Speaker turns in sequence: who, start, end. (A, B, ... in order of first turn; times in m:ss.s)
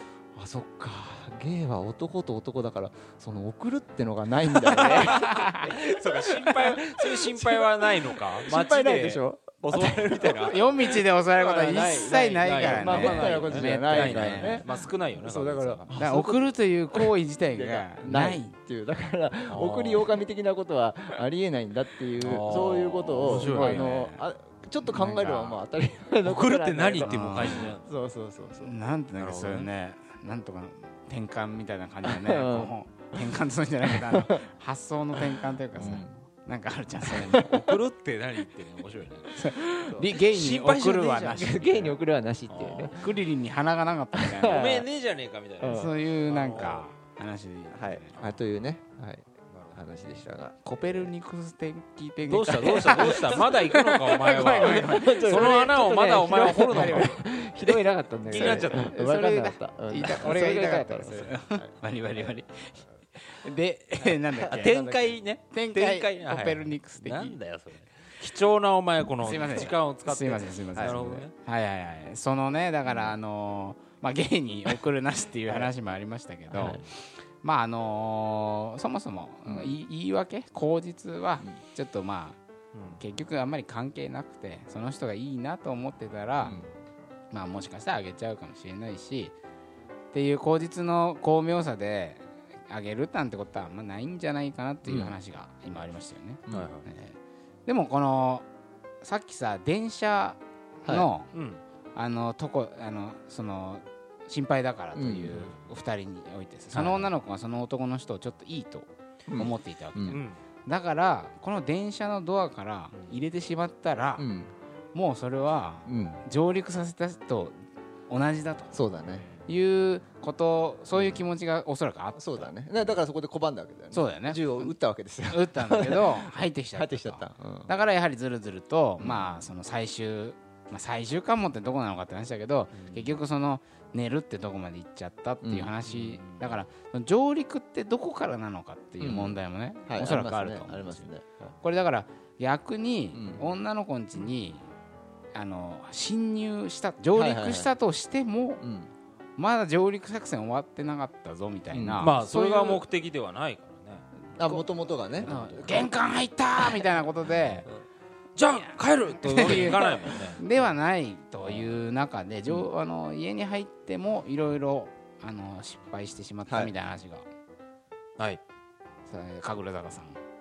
0:00.3-0:11.0 A
0:04.6-0:05.7 B
0:04.8-0:16.0 C
0:10.4-0:14.7 B
0:11.8-0:28.8 A
0:15.9-0:18.5 B
0:19.5-0:20.1 C
0:22.2-0:24.0 C
0:23.2-0:24.2 B
0:24.8-0:25.6 B
0:26.2-0:27.8 C
0:27.0-0:27.7 B
0:28.6-0:37.5 B
0:29.2-0:29.7 C
0:32.0-0:32.7 A
0:33.8-0:34.4 A
0:35.1-0:36.2 A
0:37.1-0:37.7 A
0:37.4-0:39.6 C
0:39.3-0:41.8 B
0:39.8-0:40.1 A
0:40.1-0:42.0 C
0:41.0-0:43.0 A
0:42.5-0:43.1 C
0:42.9-0:44.6 B
0:44.2-0:44.9 A
0:44.4-0:46.9 C
0:45.6-0:45.9 A
0:45.6-0:48.2 B
0:47.7-0:51.0 A
0:49.5-0:50.2 C
0:50.6-0:55.7 B
0:52.2-0:57.2 C
0:52.6-0:53.6 A
0:54.3-1:01.7 A
0:56.3-0:57.4 B
0:58.3-0:58.9 C
0:58.4-1:04.9 B
1:04.0-1:05.1 A
1:04.5-1:11.3 C
1:05.5-1:07.4 B
1:09.2-1:22.4 B
1:12.9-1:13.1 A
1:16.5-1:16.8 A
1:19.4-1:19.7 A
1:22.7-1:23.0 C
1:23.0-1:26.6 B
1:26.4-1:26.7 C
1:26.4-1:26.7 A
1:27.3-1:29.3 B
1:30.1-1:38.4 B
1:34.8-1:35.1 A
1:36.5-1:36.9 C
1:39.0-1:41.3 B
1:41.3-1:41.6 C
1:41.9-1:54.3 B
1:45.0-1:45.4 A
1:49.3-1:50.2 A
1:50.1-1:50.4 C
1:54.2-1:54.5 A
1:54.9-1:58.7 B
1:55.9-1:56.2 A
1:58.7-1:59.3 A
1:59.1-1:59.4 C
1:59.5-2:02.5 B
2:00.9-2:01.2 A
2:02.2-2:07.7 A
2:03.9-2:04.7 B
2:05.3-2:21.1 B
2:09.0-2:09.3 A
2:12.7-2:13.1 C
2:15.4-2:15.7 A
2:15.8-2:16.6 C
2:19.0-2:21.5 A
2:21.6-2:24.7 B
2:23.1-2:23.5 A
2:25.3-2:28.6 B
2:27.1-2:27.7 A
2:28.6-2:28.9 A
2:29.4-2:32.5 B
2:31.7-2:32.8 A
2:32.0-2:34.1 C
2:34.4-2:35.9 A
2:35.2-2:35.9 C
2:35.2-2:37.7 B
2:38.4-2:40.4 C
2:38.6-2:47.3 B
2:39.6-2:40.0 A
2:49.1-2:50.2 B